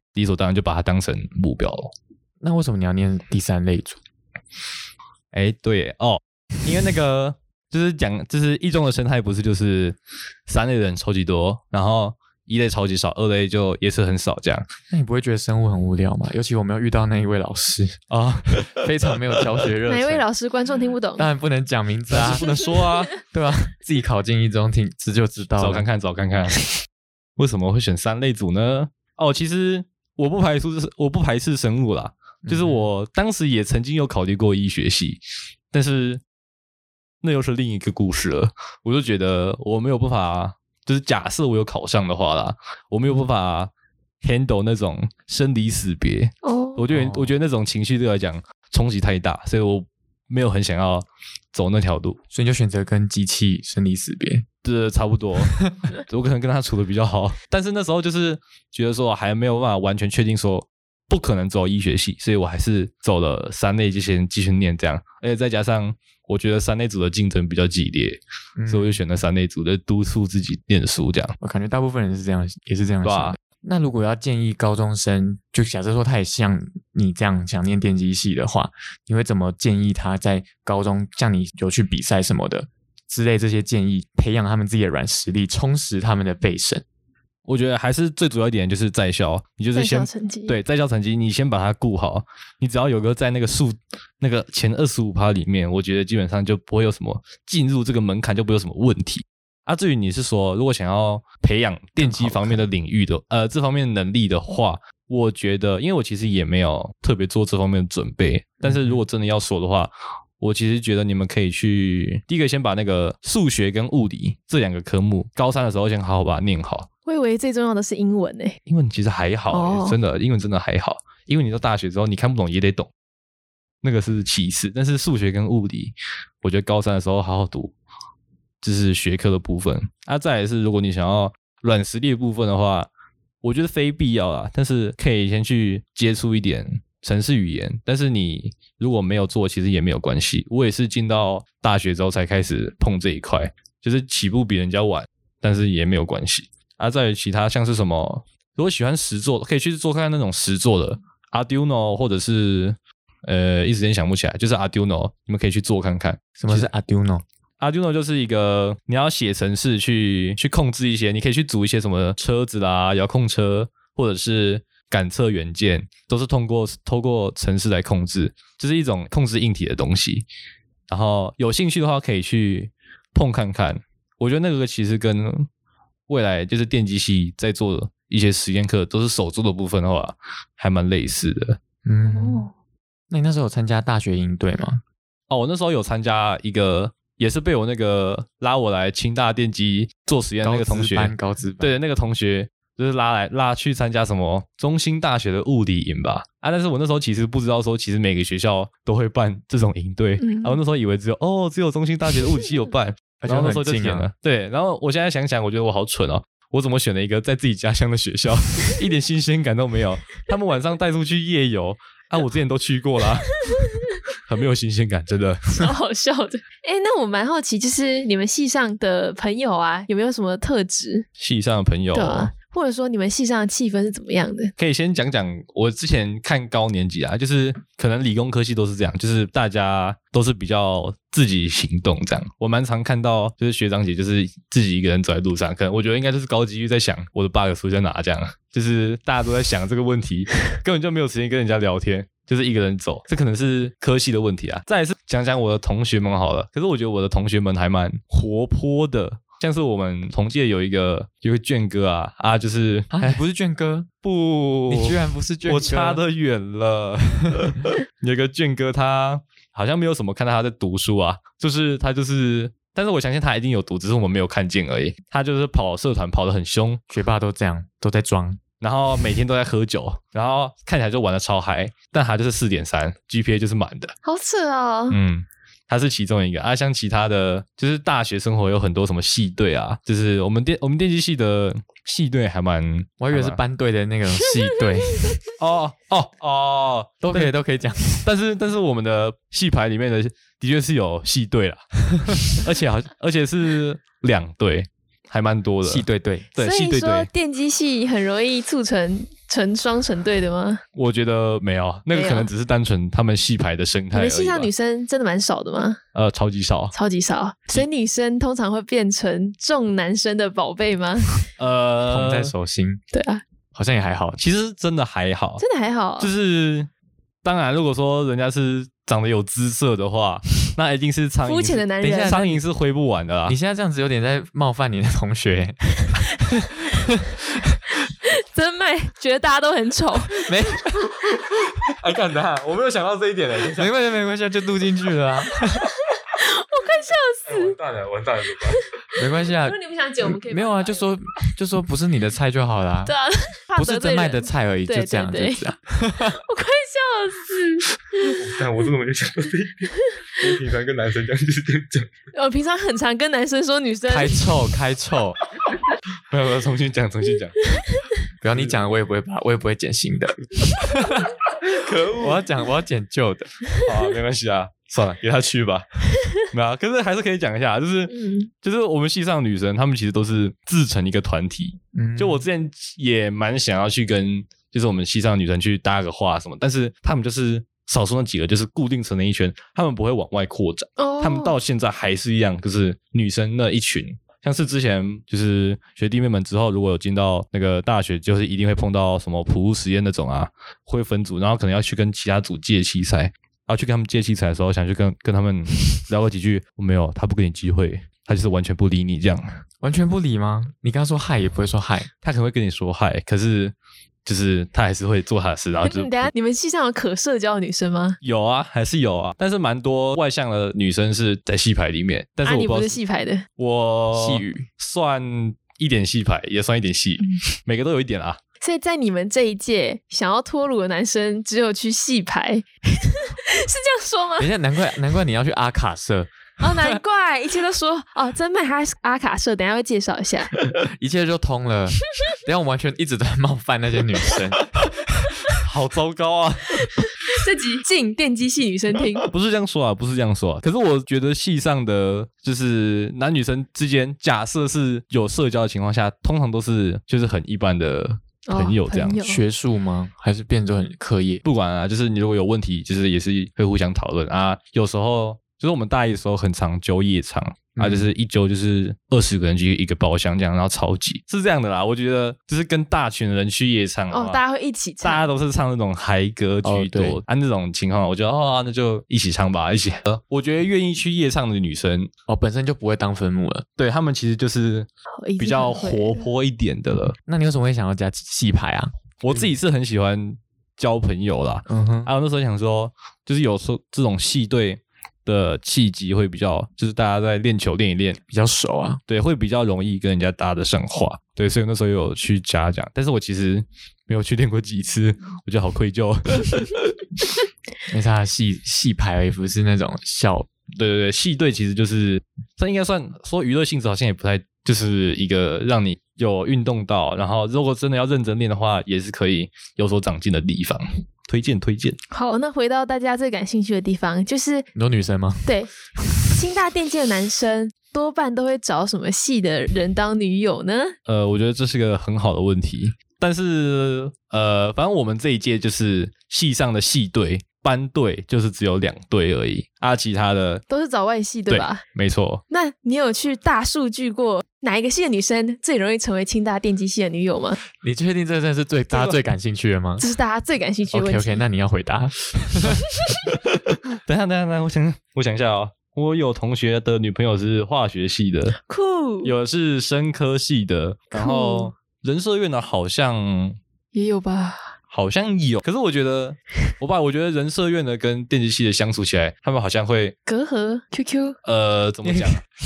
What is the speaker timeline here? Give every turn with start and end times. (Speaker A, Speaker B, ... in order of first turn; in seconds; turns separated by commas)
Speaker A: 0.1-1.9, Speaker B: 2.4-4.0, Speaker A: 5.3-14.6, Speaker B: 14.9-18.0, Speaker A: 18.1-19.4, Speaker B: 18.7-20.2, Speaker C: 19.9-21.3, Speaker B: 21.2-22.5, Speaker A: 22.1-23.1, Speaker B: 23.2-25.8, Speaker A: 25.6-26.8, Speaker A: 27.4-35.2, Speaker B: 32.5-32.9, Speaker A: 35.7-36.2, Speaker A: 37.2-43.7, Speaker A: 44.2-52.2, Speaker C: 46.4-46.8, Speaker B: 46.9-47.3, Speaker B: 52.3-54.5, Speaker A: 54.6-71.3, Speaker B: 68.6-69.0, Speaker B: 71.4-86.8, Speaker A: 73.0-73.3, Speaker A: 87.5-116.9, Speaker C: 89.7-90.5, Speaker B: 102.0-102.6, Speaker B: 108.6-109.0, Speaker C: 117.0-118.6, Speaker A: 118.7-122.9, Speaker C: 119.5-120.0, Speaker A: 123.8-127.7, Speaker A: 128.6-132.9, Speaker A: 133.4-156.7, Speaker B: 156.4-157.2, Speaker A: 157.6-170.2, Speaker A: 170.9-175.5, Speaker A: 176.1-181.6, Speaker B: 181.8-182.5, Speaker C: 182.1-182.5, Speaker B: 183.1-184.8, Speaker A: 185.3-215.6, Speaker B: 190.4-191.7, Speaker C: 200.2-200.6, Speaker B: 203.2-204.1, Speaker C: 215.5-221.1, Speaker A: 221.2-222.3, Speaker C: 221.9-224.5, Speaker A: 224.6-253.2, Speaker B: 252.9-253.9, Speaker A: 254.0-266.8, Speaker B: 254.7-256.0, Speaker B: 266.9-268.4, Speaker A: 268.6-273.9, Speaker C: 274.0-275.0, Speaker A: 274.9-283.4, Speaker B: 283.0-285.1, Speaker A: 285.3-287.3, Speaker B: 287.0-288.0, Speaker A: 288.0-297.1, Speaker B: 295.6-296.3, Speaker C: 296.4-300.6, Speaker A: 300.7-304.5, Speaker C: 301.9-302.3, Speaker C: 303.9-305.8, Speaker A: 305.9-306.7, Speaker C: 306.7-311.2, Speaker A: 311.4-312.3, Speaker B: 311.9-312.8, Speaker C: 312.9-313.2, Speaker B: 313.5-314.2, Speaker A: 314.2-315.4, Speaker C: 315.4-316.1, Speaker A: 316.0-316.7, Speaker A: 317.2-323.4, Speaker C: 321.2-322.2, Speaker B: 321.8-322.4, Speaker B: 323.3-327.4, Speaker C: 328.0-330.3, Speaker B: 330.1-330.9, Speaker A: 331.1-333.7, Speaker B: 333.6-335.7, Speaker C: 335.9-337.6, Speaker A: 337.2-338.6, Speaker B: 338.9-342.9, Speaker C: 339.2-340.9, Speaker C: 342.9-345.5, Speaker B: 343.6-346.2, Speaker C: 346.1-348.2, Speaker A: 348.0-351.9, Speaker C: 352.1-354.2, Speaker B: 353.9-355.2, Speaker A: 356.1-357.6, Speaker B: 358.2-361.1, Speaker A: 358.3-358.6, Speaker A: 361.4-362.2, Speaker B: 361.9-363.3, Speaker A: 363.6-399.3, Speaker C: 367.9-368.3, Speaker B: 371.7-372.2, Speaker C: 380.8-381.3, Speaker B: 399.6-401.9, Speaker A: 402.0-403.5, Speaker A: 404.0-406.1, Speaker C: 405.6-408.0, Speaker A: 408.0-412.8, Speaker C: 412.2-413.2, Speaker A: 413.4-418.2, Speaker B: 413.9-414.5, Speaker C: 418.4-424.3, Speaker B: 424.2-426.8, Speaker C: 426.4-430.4, Speaker B: 430.5-434.5, Speaker A: 435.3-436.8, Speaker C: 437.1-439.1, Speaker A: 439.0-449.0, Speaker C: 448.3-449.2, Speaker B: 449.0-451.2, Speaker A: 451.2-464.2, Speaker B: 457.6-457.9, Speaker C: 463.9-465.1, Speaker A: 464.8-471.9, Speaker B: 466.4-467.0, Speaker B: 472.1-473.4, Speaker A: 473.6-474.7, Speaker C: 475.0-476.1, Speaker A: 475.2-476.9, Speaker B: 477.0-479.3, Speaker A: 479.0-488.0, Speaker B: 481.5-481.9, Speaker B: 488.1-488.8, Speaker A: 488.9-496.7, Speaker B: 497.7-500.3, Speaker A: 500.5-511.8, Speaker C: 511.9-514.5, Speaker B: 514.5-515.3, Speaker C: 516.1-520.7, Speaker A: 520.9-530.4, Speaker C: 530.5-531.6, Speaker A: 531.3-532.2, Speaker C: 532.3-537.4, Speaker B: 537.5-539.8, Speaker A: 538.7-539.0, Speaker C: 539.8-541.2, Speaker B: 540.7-542.6, Speaker A: 543.1-548.4, Speaker C: 548.4-549.1, Speaker A: 549.0-553.4, Speaker C: 550.9-551.5, Speaker C: 553.7-554.5, Speaker A: 554.7-560.0, Speaker C: 560.0-561.2, Speaker A: 561.2-562.2